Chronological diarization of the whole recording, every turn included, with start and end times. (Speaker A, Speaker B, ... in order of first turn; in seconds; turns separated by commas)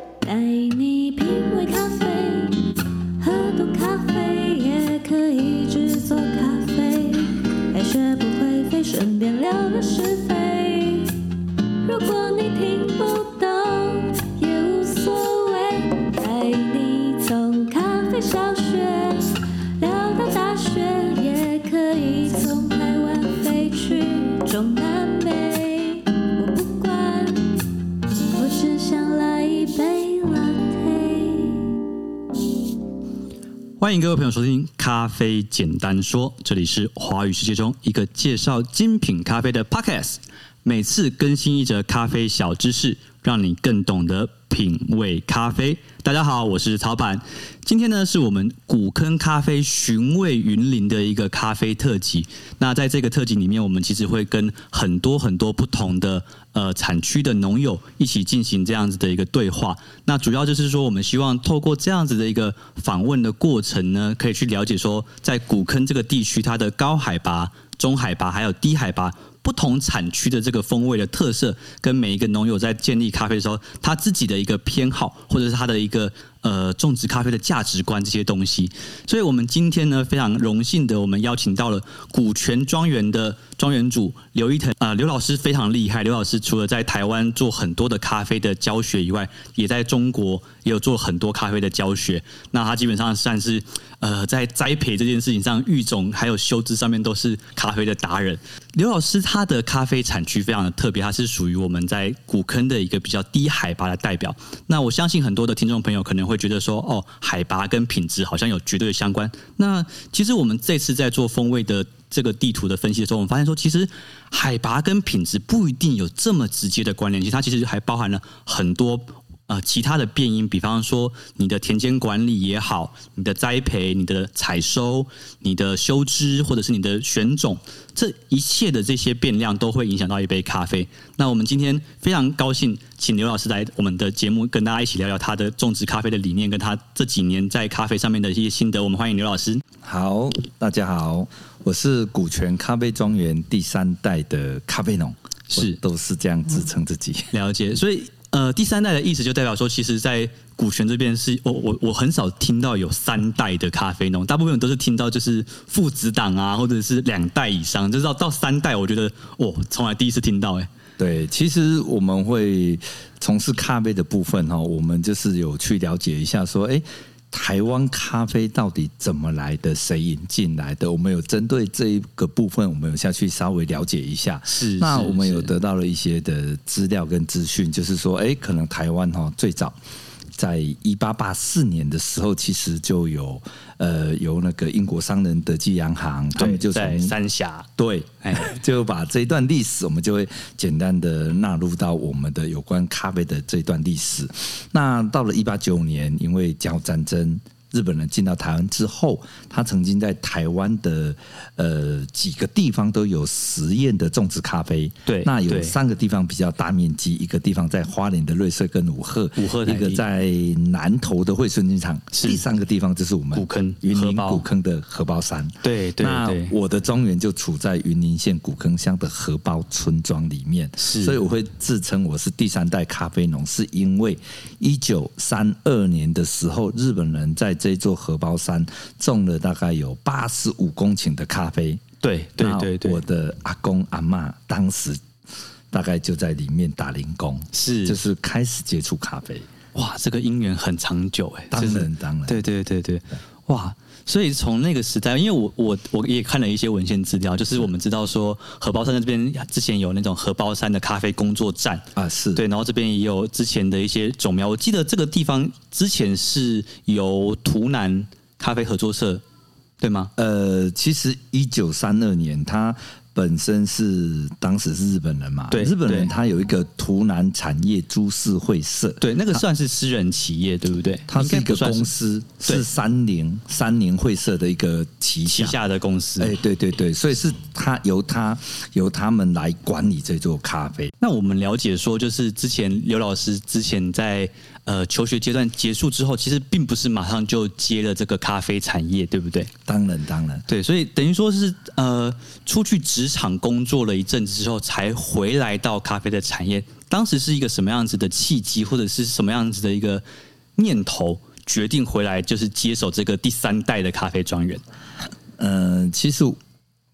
Speaker A: 0.2-11.2, Speaker A: 11.8-27.5, Speaker A: 28.3-31.8, Speaker B: 33.8-139.6, Speaker C: 139.8-147.3, Speaker B: 145.5-145.8, Speaker B: 147.3-160.7, Speaker C: 161.0-179.8, Speaker B: 174.5-175.5, Speaker C: 180.3-187.2, Speaker B: 186.3-187.7, Speaker C: 187.8-231.8, Speaker B: 188.2-188.6, Speaker B: 205.1-205.8, Speaker B: 209.4-210.0, Speaker B: 212.1-212.4, Speaker B: 213.3-214.4, Speaker B: 215.6-216.5, Speaker B: 220.8-221.2, Speaker B: 232.0-233.0, Speaker C: 232.4-235.0, Speaker C: 235.7-239.5, Speaker B: 237.5-238.0, Speaker B: 239.7-259.2, Speaker C: 241.5-242.4, Speaker C: 252.0-252.4, Speaker B: 259.8-260.1, Speaker C: 260.2-269.4, Speaker B: 265.5-266.1, Speaker B: 269.0-271.9, Speaker C: 271.1-275.6, Speaker B: 275.3-276.4, Speaker C: 276.2-280.9, Speaker B: 281.0-289.5, Speaker C: 289.7-290.4, Speaker B: 290.5-300.0, Speaker B: 300.6-304.6, Speaker C: 305.4-306.4